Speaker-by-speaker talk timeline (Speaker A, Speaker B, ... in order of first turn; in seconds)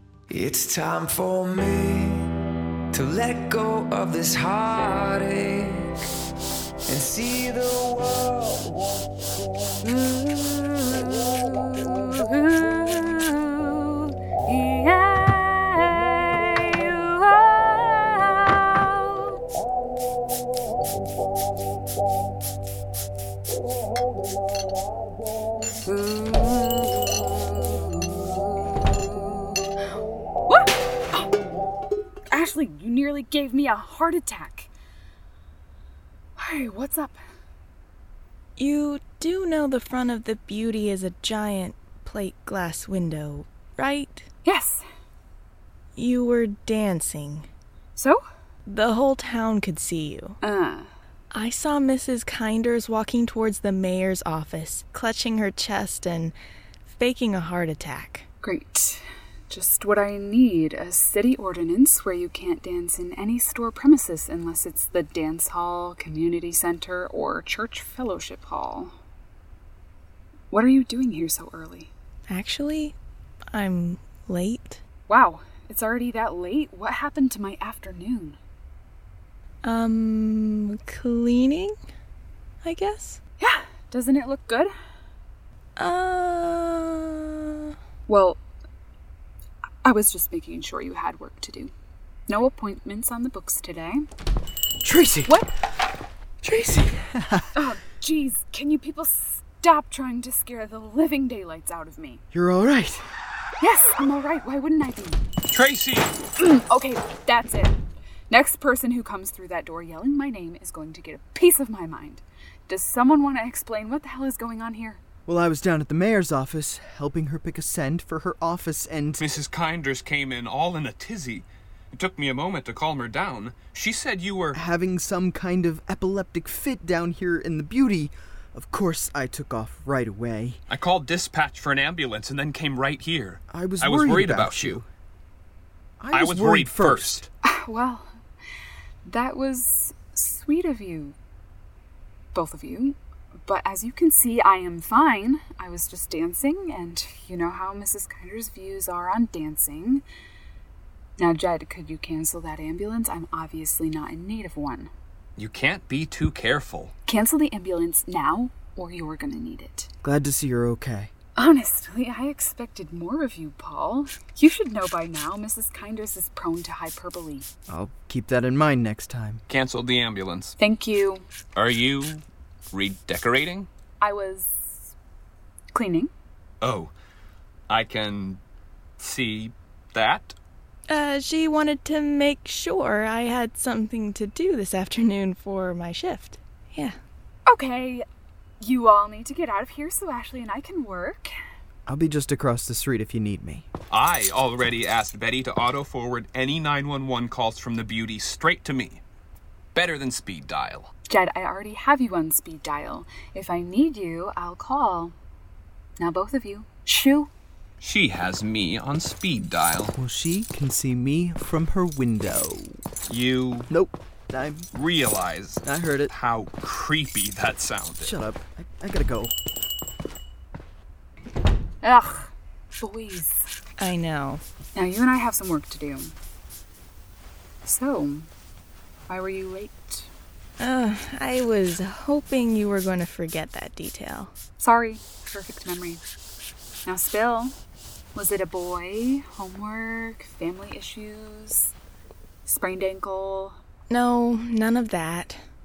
Speaker A: 0.3-2.3, 2.9-6.0, 6.8-8.8
Speaker B: 9.8-19.4, 25.8-29.6, 30.5-31.3, 32.3-34.7, 36.4-37.2, 44.4-44.8, 50.4-50.9, 58.4-68.9, 70.5-71.9, 75.1-78.4, 83.4-84.7, 88.1-88.4, 89.8-91.7, 92.3-94.0, 97.5-102.2, 103.6-105.2, 106.4-107.8, 108.3-115.0, 137.4-138.2, 139.0-141.2, 142.3-150.0, 151.2-154.9, 157.1-159.9, 161.3-167.5, 170.6-171.2, 174.0-174.9, 175.7-176.1, 187.5-188.1, 188.6-191.3, 201.1-205.1, 206.0-207.3, 221.8-223.5, 224.7-226.2, 227.6-228.3, 229.1-230.1, 234.6-236.0, 236.8-237.5, 238.1-241.7, 242.4-243.6
Speaker C: 38.6-44.3, 46.0-47.5, 48.6-50.4, 51.3-56.3, 56.9-58.2, 72.3-73.0, 73.5-74.8, 79.6-81.8, 82.6-83.2, 85.8-87.7, 180.9-187.0, 223.8-224.4, 230.6-234.3, 243.9-245.4
Speaker D: 94.8-95.3, 96.4-97.6, 102.3-103.0, 115.3-119.2, 124.5-130.6, 133.5-134.9, 136.0-137.3, 160.0-161.1, 167.7-169.4, 191.9-193.7, 209.9-212.8, 213.7-214.7, 215.6-216.1, 218.0-219.3
Speaker E: 105.5-106.1, 119.2-124.6, 130.7-134.8, 136.1-137.2, 155.4-156.9, 169.5-170.5, 171.6-173.7, 176.6-176.9, 177.7-178.4, 179.0-180.3, 193.9-199.0, 199.7-200.9, 207.8-209.9, 213.1-213.7, 214.7-218.1